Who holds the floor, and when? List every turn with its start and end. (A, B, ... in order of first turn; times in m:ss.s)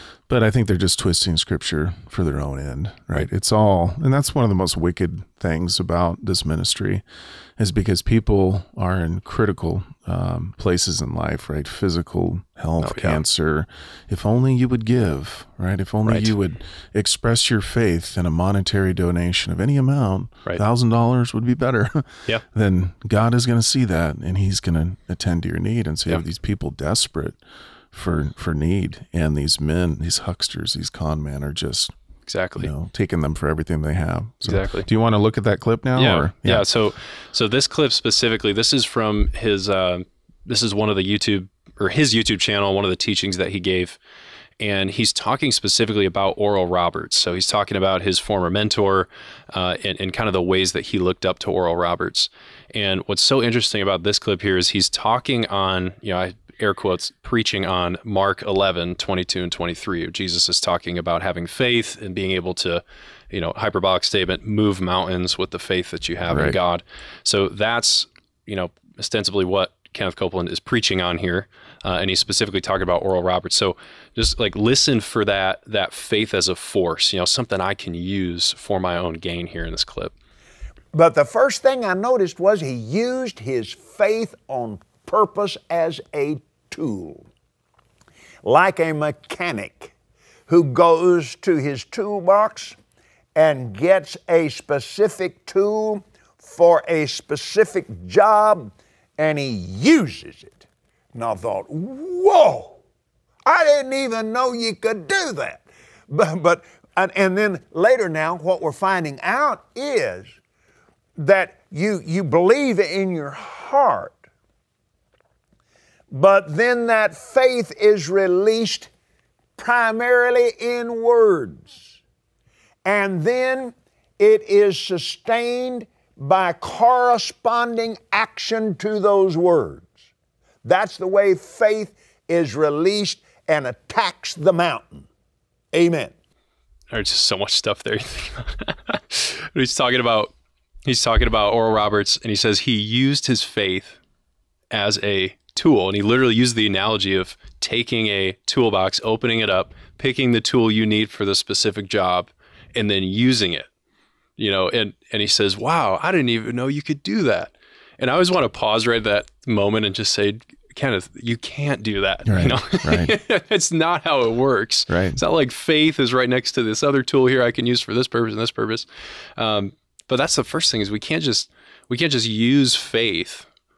0:00.3-0:07.0 A
0:07.6-0:27.4 A
0:12.8-0:13.2 B
0:16.0-0:16.3 B
0:27.9-0:31.9 A
0:32.3-0:32.7 B
0:32.6-0:36.6 A
0:34.4-0:34.9 B
0:36.0-0:44.0 B
0:44.6-1:20.1 B
1:06.3-1:06.6 A
1:20.9-1:27.3 C
1:28.4-1:29.9 C
1:30.5-1:32.8 C
1:33.3-1:40.6 C
1:41.1-1:42.8 C
1:43.4-1:50.3 C
1:51.2-1:54.2 C
1:56.1-1:58.9 C
1:59.6-2:02.0 C
2:02.8-2:09.9 C
2:10.6-2:15.1 C
2:15.7-2:16.1 C
2:16.9-2:20.3 B
2:20.8-2:24.0 B
2:24.7-2:33.7 B
2:34.4-2:53.5 B
2:42.2-2:43.1 A
2:44.9-2:45.2 A